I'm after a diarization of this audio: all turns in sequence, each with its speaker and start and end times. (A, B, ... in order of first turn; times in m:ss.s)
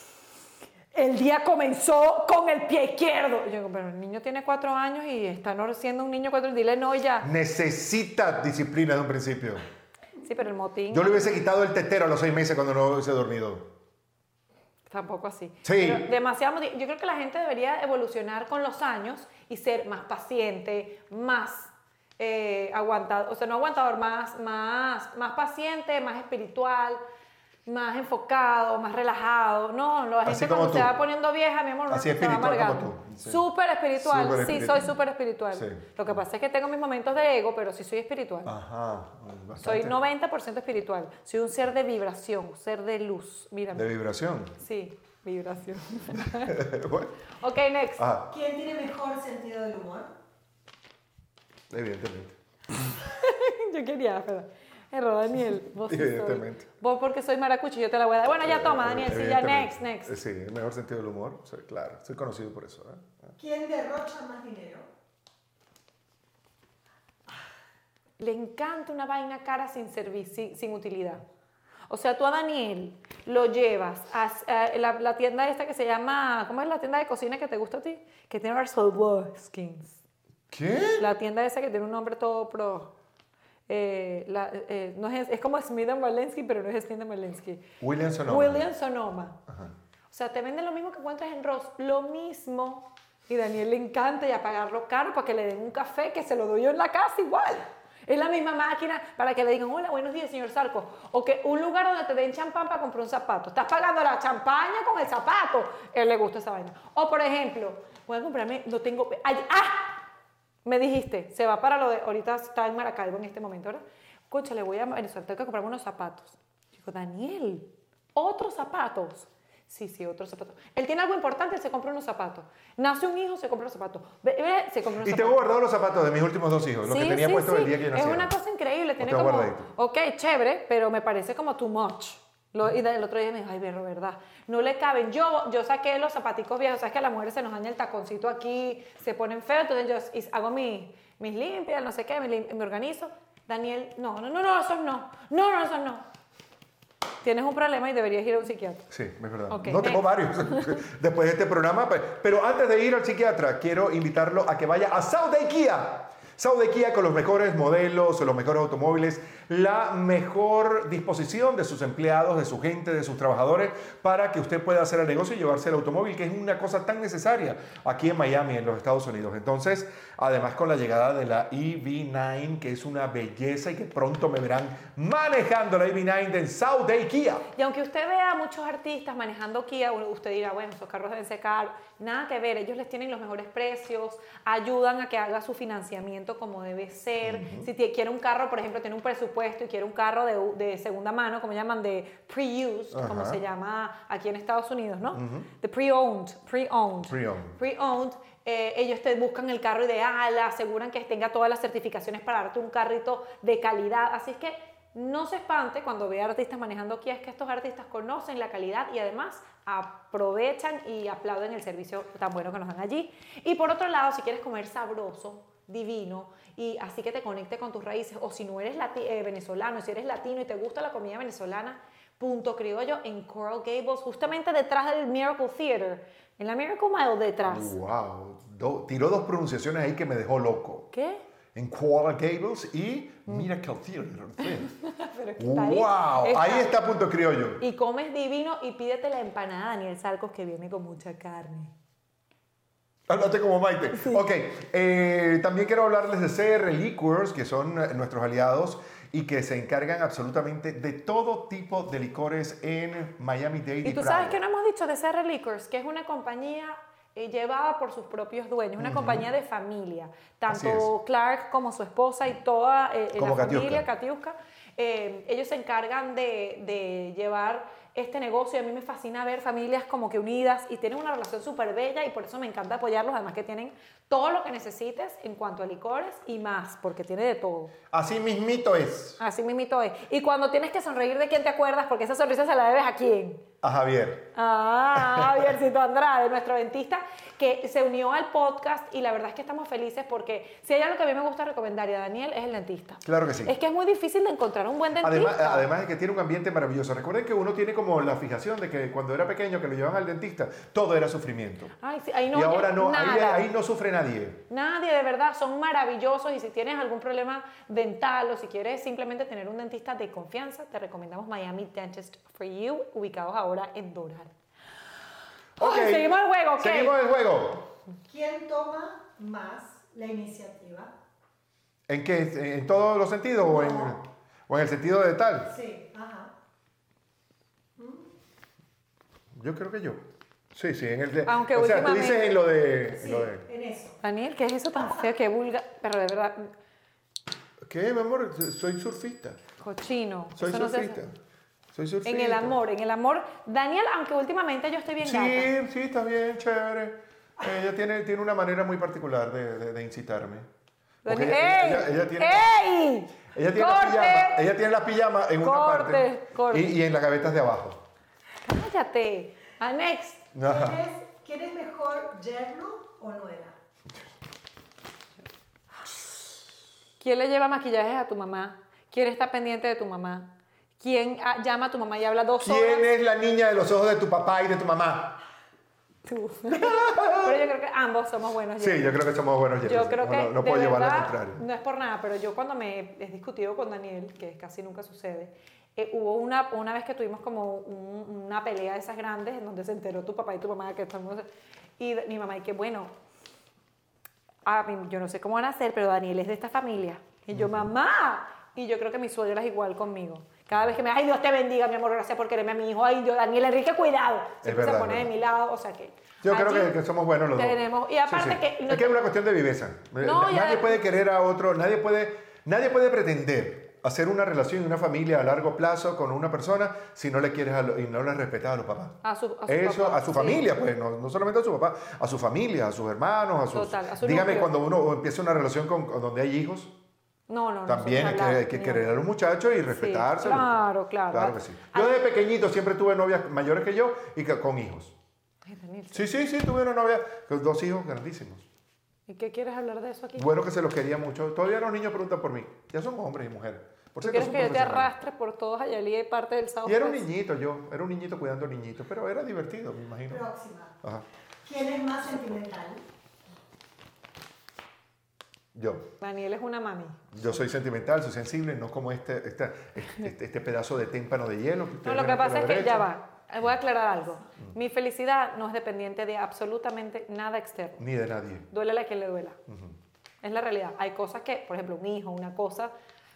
0:00.9-0:07.3 A
0:07.2-0:09.6 B
0:10.2-0:11.4 A
0:10.9-0:13.7 B
0:14.9-0:27.0 A
0:15.6-0:16.0 B
0:27.7-0:38.5 A
0:30.3-0:30.9 B
0:31.9-0:33.4 B
0:34.0-0:34.9 B
0:35.5-0:35.9 B
0:38.4-0:40.0 B
0:39.6-0:43.9 A
0:43.7-0:44.6 B
0:44.6-0:46.6 A
0:46.4-0:47.1 B
0:47.4-0:48.0 A
0:48.0-0:48.3 B
0:48.3-0:50.1 C
0:51.7-0:52.4 B
0:53.0-1:00.2 A
0:55.9-0:56.7 B
0:58.3-1:03.3 B
1:03.4-1:04.9 C
1:08.2-1:11.2 A
1:11.9-1:20.0 A
1:20.5-1:21.1 B
1:21.0-1:22.9 A
1:23.7-1:27.6 A
1:27.8-1:28.6 B
1:28.2-1:29.4 A
1:30.1-1:50.0 A
1:50.6-2:05.6 A
2:05.0-2:08.3 B
2:06.8-2:26.1 A
2:09.0-2:09.7 B
2:27.2-2:28.9 A
2:28.9-2:57.5 B
2:29.5-2:30.8 A
2:57.6-3:47.7 A
3:07.2-3:07.7 B
3:12.9-3:13.4 B
3:15.1-3:15.5 B
3:17.1-3:17.6 B
3:47.5-3:50.9 B
3:50.9-3:51.2 A
3:51.6-3:54.7 B
3:54.4-3:56.7 A
3:55.4-3:57.6 B
3:57.6-4:01.7 A
4:03.1-4:14.4 B
4:13.8-4:37.7 A
4:18.8-4:19.3 B
4:20.5-4:20.9 B
4:23.2-4:23.8 B
4:37.9-4:39.2 B
4:39.2-4:43.4 A
4:43.6-4:44.3 B
4:44.4-4:55.7 A
4:45.0-4:45.5 B
4:53.0-4:53.6 B
4:55.0-5:01.7 B
5:01.8-5:03.5 A
5:02.3-5:04.4 B
5:04.5-5:14.3 A
5:15.6-5:17.0 A
5:15.6-5:17.7 B
5:18.1-5:20.9 C
5:21.9-5:25.5 B
5:23.5-5:23.9 A
5:25.5-5:26.3 C
5:27.8-5:28.1 C
5:29.4-5:33.4 B
5:31.3-5:32.3 A
5:33.0-5:34.0 C
5:34.0-5:36.5 A
5:37.7-5:39.4 B
5:39.6-5:41.0 A
5:40.4-5:41.2 B
5:41.7-5:42.6 B
5:42.0-5:45.5 A
5:45.0-5:50.5 B
5:51.0-5:54.4 A
5:51.1-5:52.5 B
5:53.3-5:57.8 B
5:55.4-5:56.8 A
5:58.4-6:00.3 A
6:00.3-6:00.8 B
6:00.4-6:03.6 C
6:07.0-6:12.8 A
6:12.4-6:15.2 B
6:16.1-6:19.0 A
6:16.5-6:17.4 B
6:18.6-6:21.4 B
6:19.6-6:31.3 A
6:31.8-6:32.9 A
6:34.4-6:46.8 A
6:37.3-6:37.7 B
6:44.4-6:45.1 B
6:46.2-6:58.9 B
6:47.3-6:49.0 A
6:50.0-6:50.8 A
6:59.0-7:00.4 A
6:59.5-7:06.7 B
7:03.5-7:04.5 A
7:07.3-7:09.0 A
7:07.7-7:15.0 B
7:09.7-7:12.0 A
7:15.5-7:16.1 A
7:15.9-7:18.5 B
7:19.1-7:20.4 A
7:20.2-7:24.9 B
7:24.0-7:27.0 A
7:26.7-7:30.2 B
7:30.1-7:30.8 C
7:31.4-7:32.8 C
7:35.6-7:35.9 B
7:36.0-7:37.0 A
7:37.1-7:42.9 B
7:41.8-7:47.8 A
7:47.8-7:48.5 B
7:48.5-7:49.4 A
7:49.5-7:49.8 B
7:50.2-7:52.7 A